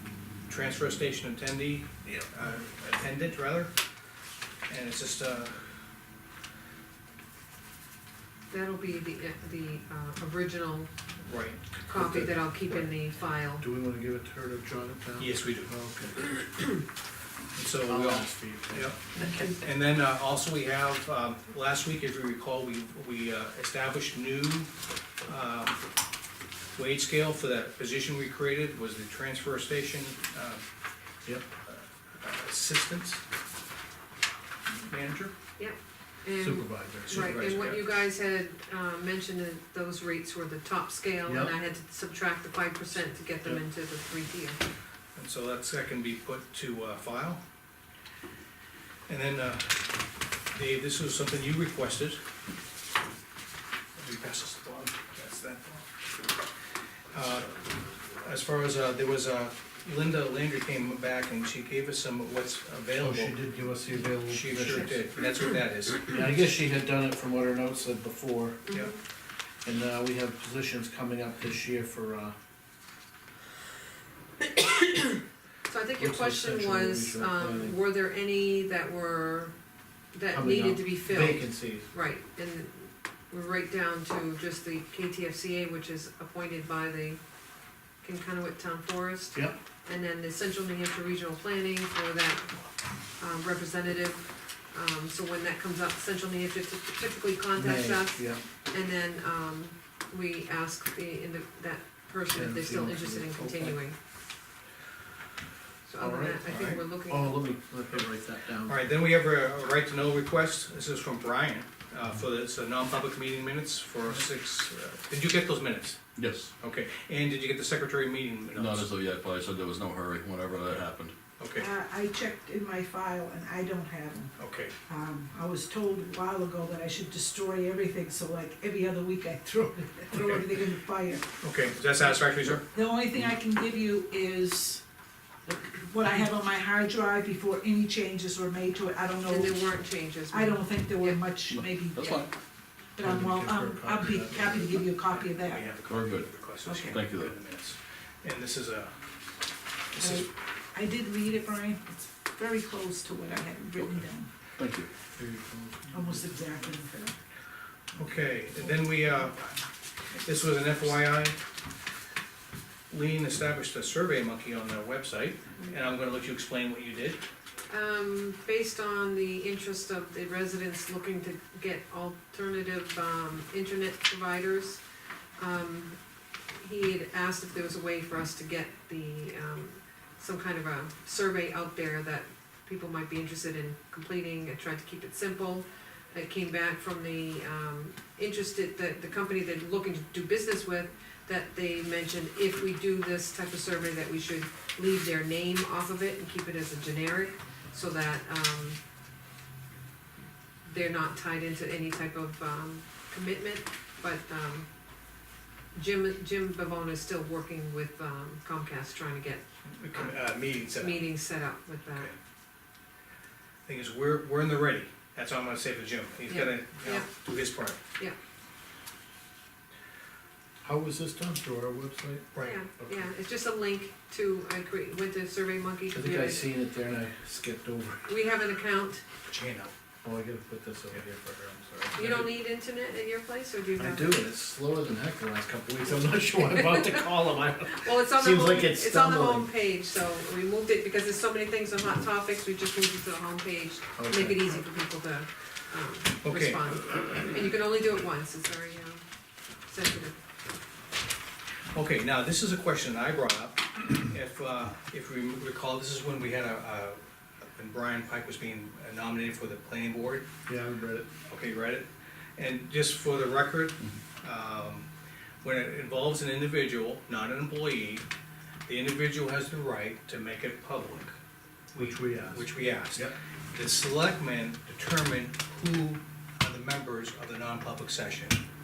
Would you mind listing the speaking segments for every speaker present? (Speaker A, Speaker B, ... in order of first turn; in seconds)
Speaker A: 0.5-3.7, 4.7-5.7, 11.2-11.7, 15.2-15.7, 17.6-24.7, 25.2-25.8, 26.8-30.6, 31.7-33.2, 34.9-35.3, 37.1-37.8, 45.1-47.4, 49.1-49.9, 50.5-52.2, 54.0-55.9, 57.1-63.4, 64.3-66.2, 108.7-116.0, 116.6-119.0, 121.4-121.7, 124.4-124.8, 130.2-130.5, 131.4-132.7, 145.5-149.0, 149.9-150.3, 157.9-159.6, 160.2-161.4, 162.9-167.2, 209.7-211.2, 213.7-217.8, 222.3-222.6, 229.3-229.7, 246.2-246.7, 251.7-260.3, 261.3-264.9, 265.4-268.1, 268.7-271.1, 271.7-278.4
Speaker B: 8.5-10.9, 11.9-13.6, 35.6-44.6, 68.7-69.0, 74.6-79.5, 80.1-87.2, 88.0-92.6, 93.2-104.0, 105.8-107.5, 139.3-141.2, 167.7-174.8, 175.4-176.0, 176.6-198.8, 200.7-204.7, 205.8-209.4, 210.7-212.1, 216.3-217.1, 222.4-226.5, 228.1-229.0, 231.9-234.2, 236.5-236.8, 237.8-249.0, 249.7-250.2
Speaker C: 11.9-13.0, 13.6-16.4, 17.8-18.9, 36.4-37.2, 41.3-41.5, 62.9-65.0, 66.1-68.6, 69.7-72.3, 76.0-77.8, 80.3-81.9, 97.5-98.4, 102.3-103.8, 106.0-108.9, 143.0-144.9, 155.2-156.6, 220.6-223.1, 225.9-228.0, 230.0-232.3, 233.8-239.5, 244.0-244.6, 260.5-261.1, 271.8-273.1
Speaker D: 116.2-116.5, 118.5-121.1, 141.5-142.3, 145.9-146.3, 146.9-147.3, 154.6-154.9
Speaker E: 121.6-124.3, 124.9-131.3, 132.7-134.8, 135.5-142.3, 142.9-145.7, 146.6-147.0, 150.0-154.3, 155.9-157.2